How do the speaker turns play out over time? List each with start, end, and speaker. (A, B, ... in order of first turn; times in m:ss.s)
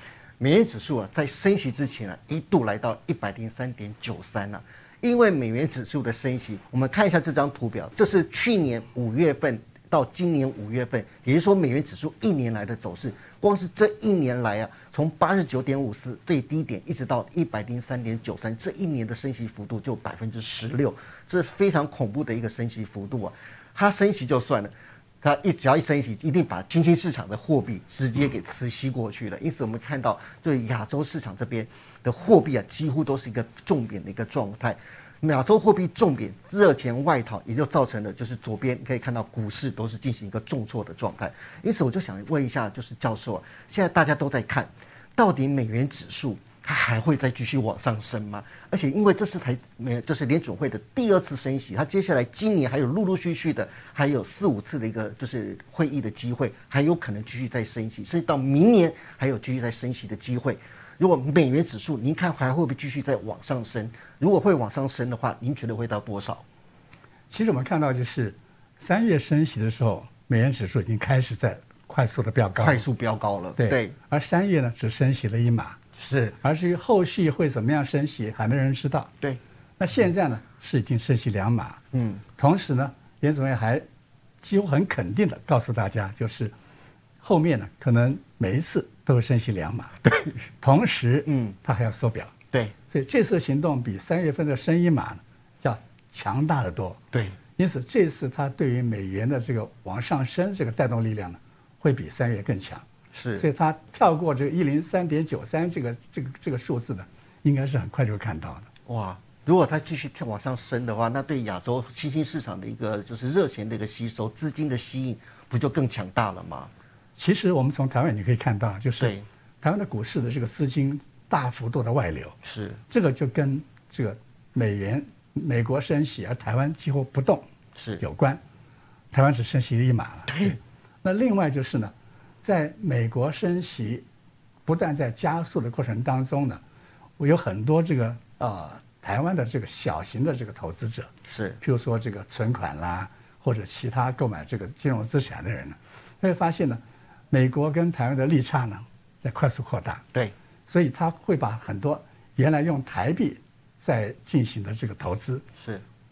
0:00.4-1:06.4 A
1:07.3-1:12.8 B
1:12.6-1:14.0 A
1:13.6-1:15.8 B
1:16.0-1:16.3 A
1:16.4-1:19.1 B
1:19.8-1:21.8 B
1:21.9-1:22.2 A
1:22.4-1:23.8 B
1:24.4-1:26.5 B
1:27.2-1:30.0 B
1:30.6-1:32.3 B
1:31.3-1:31.6 A
1:32.9-1:37.0 B
1:37.1-1:37.4 A
1:37.6-1:42.8 B
1:43.1-1:43.5 A
1:43.4-1:48.7 B
1:48.9-1:56.7 A
1:57.2-2:02.4 B
1:59.0-1:59.2 A
2:02.4-2:02.8 A
2:02.9-2:07.4 B
2:07.8-2:08.0 A
2:08.0-2:08.4 B
2:09.1-2:11.9 B
2:10.3-2:10.6 A
2:12.4-2:14.0 B
2:14.7-2:16.6 B
2:17.2-2:21.1 B
2:21.3-2:21.6 A
2:21.6-2:30.0 B
2:30.7-2:35.4 B